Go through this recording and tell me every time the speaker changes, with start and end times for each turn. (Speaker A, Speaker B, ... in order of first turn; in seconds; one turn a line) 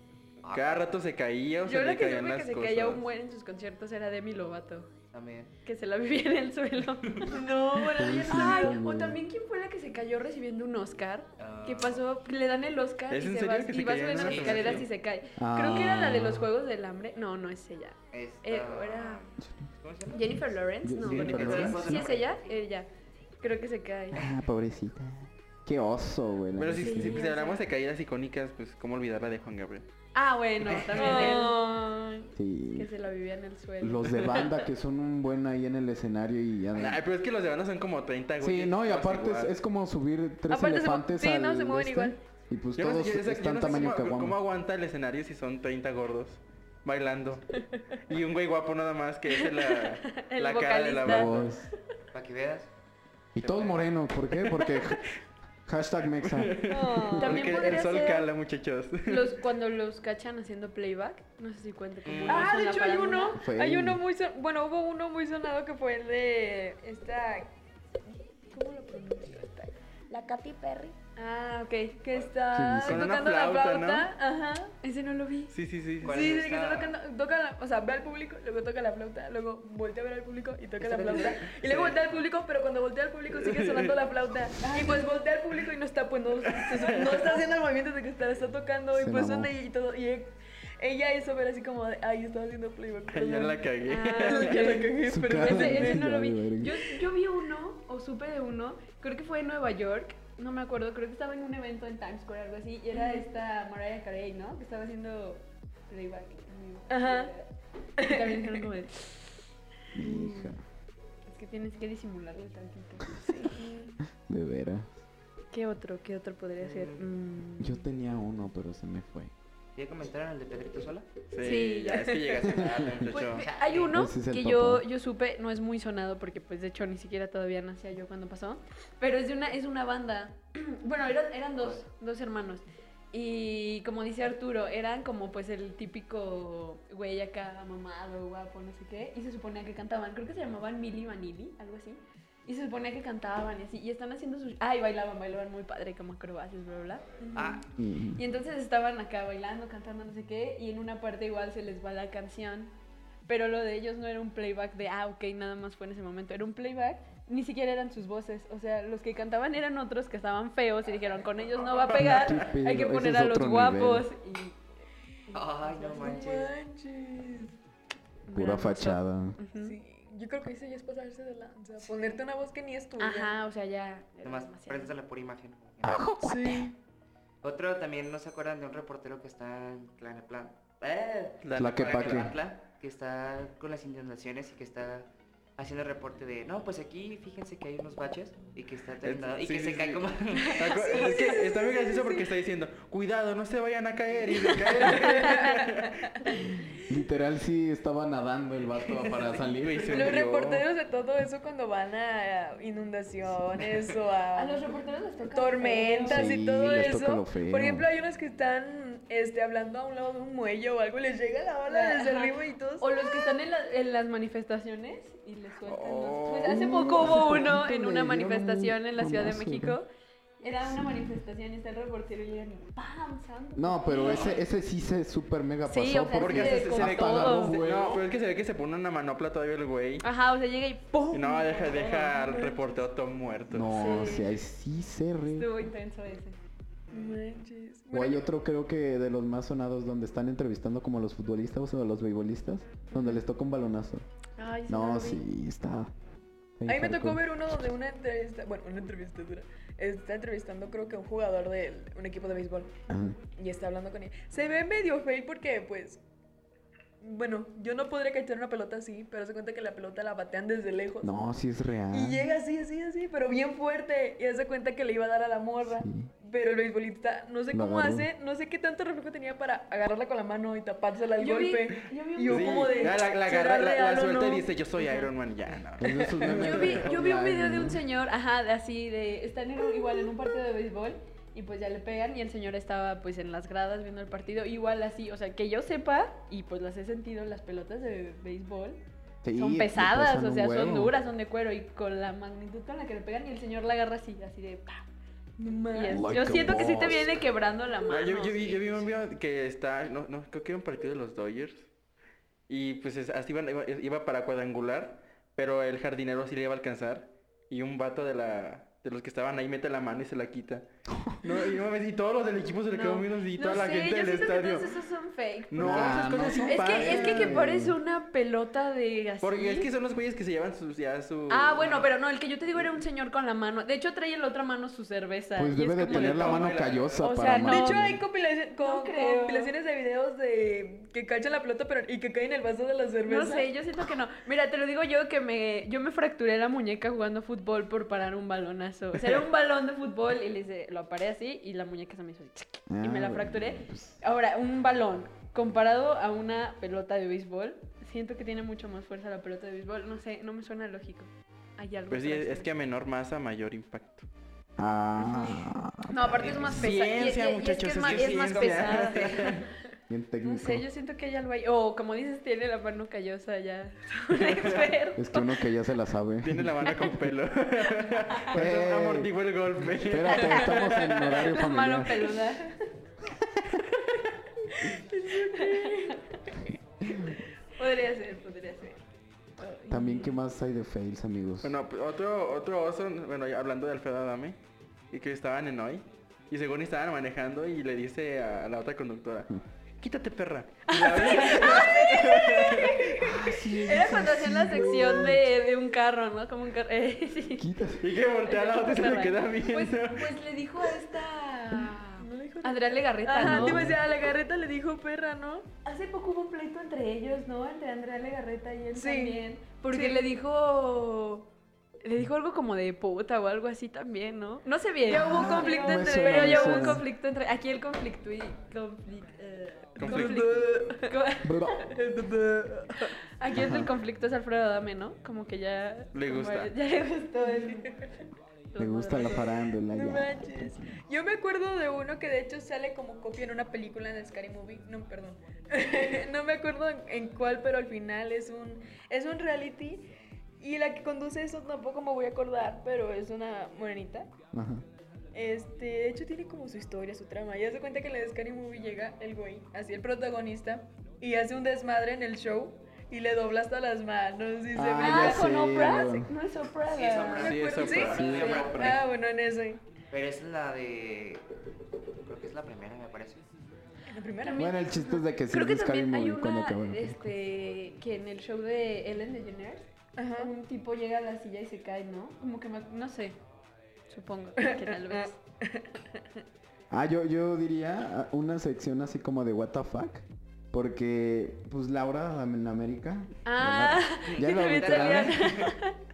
Speaker A: 0.4-1.0
Speaker B: 0.5-3.0
Speaker C: 1.6-4.9
Speaker A: 5.1-5.5
Speaker C: 5.6-19.2
Speaker D: 7.2-8.8
Speaker E: 7.9-9.2
Speaker A: 11.4-12.0
Speaker B: 13.1-14.9
Speaker A: 14.2-14.8
Speaker E: 15.4-16.5
Speaker A: 18.1-20.4
Speaker E: 19.4-19.7
Speaker C: 20.1-22.9
Speaker E: 20.8-22.1
Speaker A: 21.0-22.5
Speaker B: 21.2-21.9
Speaker C: 23.4-24.3
Speaker E: 24.1-27.2
Speaker B: 26.6-29.9
Speaker C: 26.8-27.6
Speaker C: 30.1-34.6
Speaker D: 31.0-31.6
Speaker E: 32.4-32.9
Speaker E: 33.8-37.0
Speaker B: 36.7-39.5
Speaker E: 38.4-44.4
Speaker D: 40.5-42.1
Speaker B: 42.8-51.5
Speaker C: 49.3-51.3
Speaker E: 51.0-51.7
Speaker A: 52.1-52.7
Speaker E: 53.3-55.1
Speaker B: 53.4-53.7
Speaker B: 54.3-55.0
Speaker E: 55.6-57.1
Speaker B: 56.2-59.3
Speaker D: 56.7-57.7
Speaker C: 57.1-58.3
Speaker C: 59.0-63.4
Speaker A: 62.0-62.6
Speaker D: 62.2-67.5
Speaker E: 63.4-64.0
Speaker D: 68.2-70.9
Speaker C: 71.2-72.2
Speaker D: 72.0-74.7
Speaker E: 72.5-73.1
Speaker B: 72.8-74.1
Speaker C: 74.8-75.5
Speaker B: 75.5-76.2
Speaker A: 76.0-77.0
Speaker D: 76.0-93.7
Speaker A: 80.8-82.0
Speaker B: 83.3-84.0
Speaker C: 84.6-85.1
Speaker B: 86.5-87.3
Speaker E: 88.9-89.5
Speaker B: 93.1-94.8
Speaker C: 93.8-109.2
Speaker D: 94.2-96.1
Speaker E: 95.0-97.0
Speaker D: 102.9-103.2
Speaker D: 106.9-107.3
Speaker D: 108.0-108.5
Speaker E: 109.9-110.6
Speaker C: 110.0-110.5
Speaker C: 111.3-113.3
Speaker D: 113.2-114.0
Speaker E: 114.2-115.0
Speaker C: 115.5-117.9
Speaker A: 116.6-117.0
Speaker E: 117.6-119.3
Speaker A: 119.8-121.1
Speaker B: 121.3-123.5
Speaker C: 121.4-147.6
Speaker E: 122.4-123.0
Speaker A: 122.8-123.9
Speaker E: 123.9-124.8
Speaker D: 147.2-147.6
Speaker A: 147.3-147.7
Speaker E: 147.8-148.2
Speaker C: 148.1-152.7
Speaker C: 153.3-164.6
Speaker E: 161.9-164.1
Speaker B: 162.0-162.2
Speaker C: 165.3-166.3
Speaker A: 165.3-166.5
Speaker D: 165.7-167.6
Speaker C: 168.3-169.8
Speaker E: 168.3-169.4
Speaker D: 169.6-173.3
Speaker A: 171.8-172.2
Speaker C: 173.0-174.9
Speaker A: 174.2-176.1
Speaker E: 175.8-176.7
Speaker D: 176.2-176.7
Speaker A: 177.4-190.9
Speaker B: 181.4-182.3
Speaker E: 181.5-182.3
Speaker B: 189.0-196.1
Speaker C: 190.6-191.4
Speaker D: 190.6-192.3
Speaker D: 194.5-196.4
Speaker C: 194.8-195.5
Speaker E: 196.7-200.0
Speaker A: 198.9-199.5
Speaker B: 199.5-200.6
Speaker D: 199.9-204.7
Speaker C: 204.3-207.0
Speaker D: 205.3-213.3
Speaker E: 206.1-207.9
Speaker C: 211.7-219.9
Speaker B: 215.7-217.3
Speaker E: 216.4-219.8
Speaker C: 220.4-224.4
Speaker E: 220.7-221.1
Speaker E: 223.6-228.1
Speaker C: 225.7-227.6
Speaker B: 226.2-230.1
Speaker C: 230.0-232.5
Speaker B: 231.1-233.8
Speaker D: 232.3-232.7
Speaker E: 233.5-235.7
Speaker C: 233.7-234.3
Speaker C: 235.3-236.4
Speaker D: 236.9-238.2
Speaker E: 237.9-244.1
Speaker C: 244.4-245.2
Speaker E: 244.7-245.9
Speaker E: 246.6-247.2
Speaker D: 246.7-256.0
Speaker E: 252.9-253.2
Speaker D: 257.0-261.3
Speaker E: 261.0-262.3
Speaker D: 261.9-275.0
Speaker E: 265.6-266.1
Speaker E: 267.5-268.1
Speaker C: 271.2-273.0
Speaker B: 272.3-276.8
Speaker E: 275.8-277.8
Speaker D: 275.9-276.3
Speaker C: 276.3-288.8
Speaker E: 289.2-290.9
Speaker C: 289.3-294.9
Speaker D: 295.4-296.4
Speaker C: 295.7-298.7
Speaker E: 295.9-297.2
Speaker B: 297.9-301.7
Speaker B: 302.5-310.7
Speaker B: 311.2-314.7
Speaker C: 312.7-319.7
Speaker B: 315.5-317.4
Speaker E: 315.6-317.8
Speaker B: 319.2-321.9
Speaker C: 321.3-327.9
Speaker E: 325.4-328.0
Speaker B: 325.9-327.3
Speaker D: 327.3-333.5
Speaker C: 328.6-329.5
Speaker C: 333.1-352.5
Speaker E: 342.7-344.0
Speaker B: 351.9-354.1
Speaker E: 354.6-356.7
Speaker C: 355.0-359.5
Speaker A: 356.2-356.6
Speaker B: 356.5-359.5
Speaker A: 357.8-359.4
Speaker E: 359.9-360.6
Speaker C: 360.2-365.4
Speaker B: 364.3-364.7
Speaker E: 364.9-367.1
Speaker B: 366.2-371.1
Speaker E: 368.3-372.3
Speaker C: 370.1-372.7
Speaker E: 373.1-373.5
Speaker D: 374.7-376.0
Speaker C: 375.3-376.2
Speaker C: 376.9-378.8
Speaker C: 379.4-380.2
Speaker E: 379.7-381.6
Speaker B: 381.4-384.4
Speaker B: 384.9-392.8
Speaker C: 390.7-397.5
Speaker E: 392.9-395.3
Speaker E: 397.4-398.0
Speaker B: 397.8-400.1
Speaker C: 398.2-403.7
Speaker D: 402.0-405.5
Speaker E: 403.2-403.8
Speaker C: 405.6-411.3
Speaker D: 408.7-410.1
Speaker C: 411.8-421.5
Speaker D: 414.9-416.8
Speaker E: 414.9-416.9
Speaker B: 419.8-420.3
Speaker D: 419.8-420.9
Speaker E: 421.2-421.7
Speaker D: 421.6-422.9
Speaker C: 423.2-427.7
Speaker E: 423.3-423.7
Speaker B: 425.9-426.5
Speaker D: 427.2-427.7
Speaker C: 428.5-429.3
Speaker E: 428.6-430.7
Speaker D: 429.0-444.1
Speaker E: 444.3-444.6
Speaker D: 445.1-455.9
Speaker E: 454.5-456.1
Speaker C: 454.8-457.4
Speaker A: 456.7-458.8
Speaker D: 457.0-459.6
Speaker B: 457.1-458.8
Speaker E: 458.0-458.8
Speaker A: 459.9-461.2
Speaker A: 462.0-463.2
Speaker D: 463.9-464.5
Speaker C: 464.2-473.2
Speaker E: 464.3-467.0
Speaker D: 469.9-470.3
Speaker C: 473.9-475.2
Speaker D: 474.4-476.0
Speaker E: 476.7-485.3
Speaker C: 483.2-485.8
Speaker A: 484.1-485.5